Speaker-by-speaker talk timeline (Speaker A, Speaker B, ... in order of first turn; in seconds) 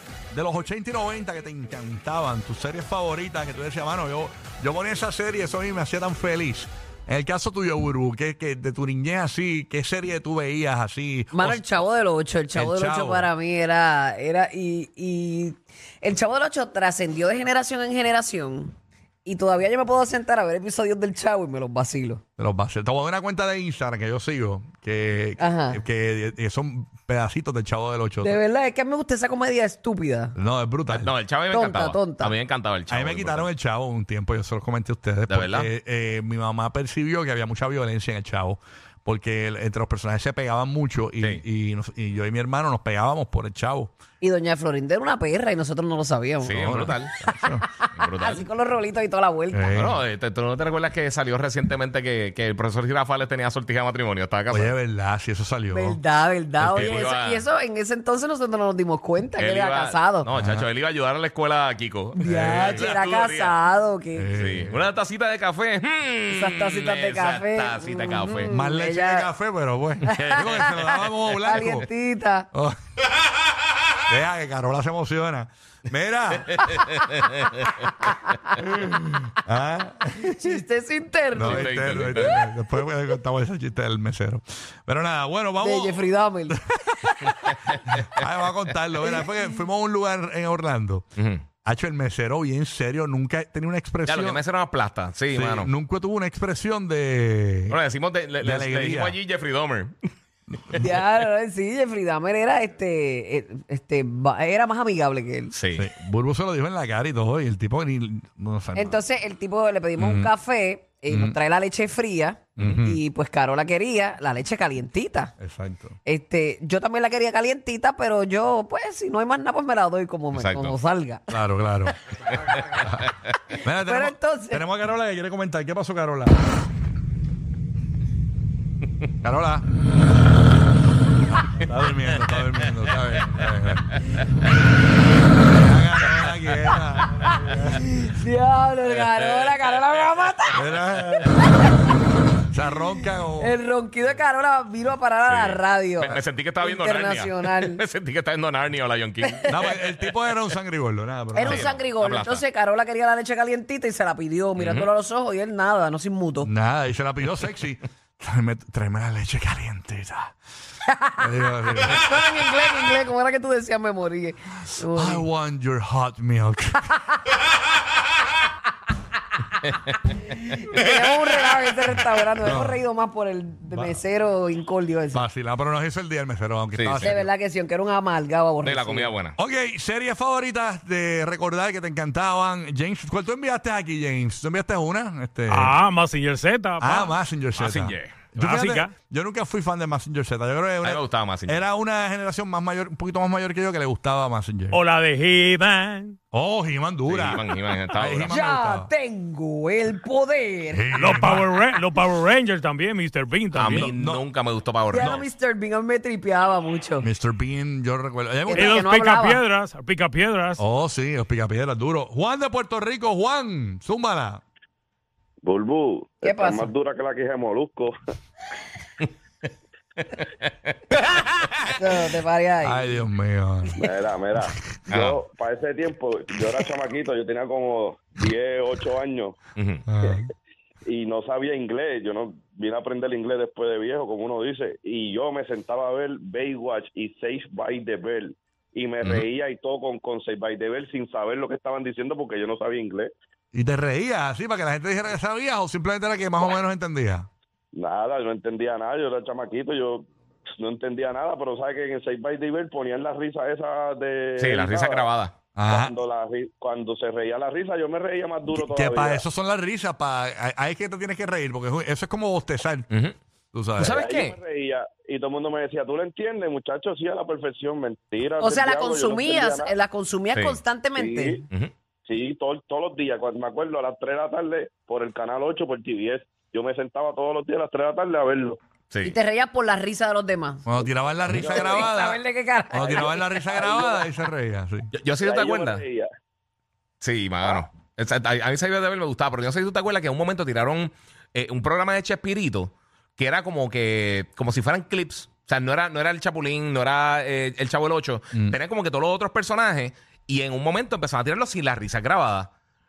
Speaker A: 0.3-11.6, 12.5-13.3, 22.4-28.4, 30.3-31.1, 32.9-43.9, 46.6-47.6, 49.5-50.0, 54.5-56.0, 56.6-57.1, 60.3-60.6, 62.2-62.9, 64.1-64.8, 68.5-71.9, 74.1-76.7, 78.6-80.6, 81.3-87.3, 87.9-91.0, 91.6-94.4, 95.3-97.8, 98.4-99.2, 105.8-109.0, 110.0-110.3, 111.1-111.4, 112.6-113.0, 115.4-116.0, 121.3-122.0, 122.7-123.0, 123.6-126.3, 129.2-129.7, 131.3-134.0, 135.4-137.8, 140.5-141.4, 142.5-143.6, 149.5-151.7, 156.4-160.3, 161.2-162.0, 164.9-166.9, 172.4-172.8, 173.7-174.0, 175.1-177.3, 179.4-185.8, 186.8-194.8, 196.3-198.9, 200.7-201.5, 203.8-204.2, 205.0-205.2, 207.0-208.9, 210.6-214.4, 222.6-223.8, 229.9-230.3, 243.5-247.3, 255.5-255.9, 258.5-262.9, 263.5-264.0, 280.6-284.9
Speaker B: 11.3-18.7, 19.2-22.2, 25.4-25.8, 28.2-30.3, 31.5-32.3, 44.2-46.8, 47.5-49.8, 55.7-60.3, 62.1-64.3, 66.3-69.3, 70.0-70.7, 71.3-72.5, 80.2-82.4, 85.6-86.6, 89.0-89.6, 100.8-105.5, 108.7-115.3, 116.0-121.3, 123.8-124.6, 137.3-140.6, 141.4-141.7, 143.4-147.8, 149.2-149.7, 151.3-156.5, 161.8-165.2, 170.6-175.2, 177.0-179.1, 198.3-201.0, 204.9-207.1, 208.5-209.4, 216.2-216.7, 221.7-223.0, 268.4-271.4, 279.0-280.6, 281.5-283.7
Speaker C: 30.9-33.5, 35.3-35.7, 46.4-47.1, 48.0-48.5, 49.7-54.7, 56.7-57.4, 59.4-63.5, 64.3-68.5, 70.1-71.5, 76.5-78.1, 81.3-82.3, 87.3-87.9, 91.2-91.4, 94.0-95.7, 97.7-99.9, 105.5-105.9, 120.3-120.8, 122.4-123.0, 132.9-133.4, 136.1-136.7, 138.9-141.3, 145.2-149.8, 151.4-152.4, 154.6-154.9, 176.7-177.2, 178.6-179.3, 187.6-188.3, 190.8-191.6, 197.1-198.4, 203.5-205.3, 224.9-225.2, 229.6-229.8, 254.4-255.3, 262.9-263.1, 263.8-264.4, 270.3-270.6, 278.9-279.1, 284.9-285.8, 287.0-302.5
Speaker D: 185.5-187.2, 188.3-188.9, 194.7-196.2, 201.0-203.9, 208.5-210.6
Speaker E: 215.4-217.9, 223.8-229.4, 230.8-243.1, 247.7-250.1, 250.6-255.1, 255.7-259.2, 263.8-269.7, 270.9-271.4, 272.1-278.6, 281.2-281.9, 282.8-284.1, 285.2-286.1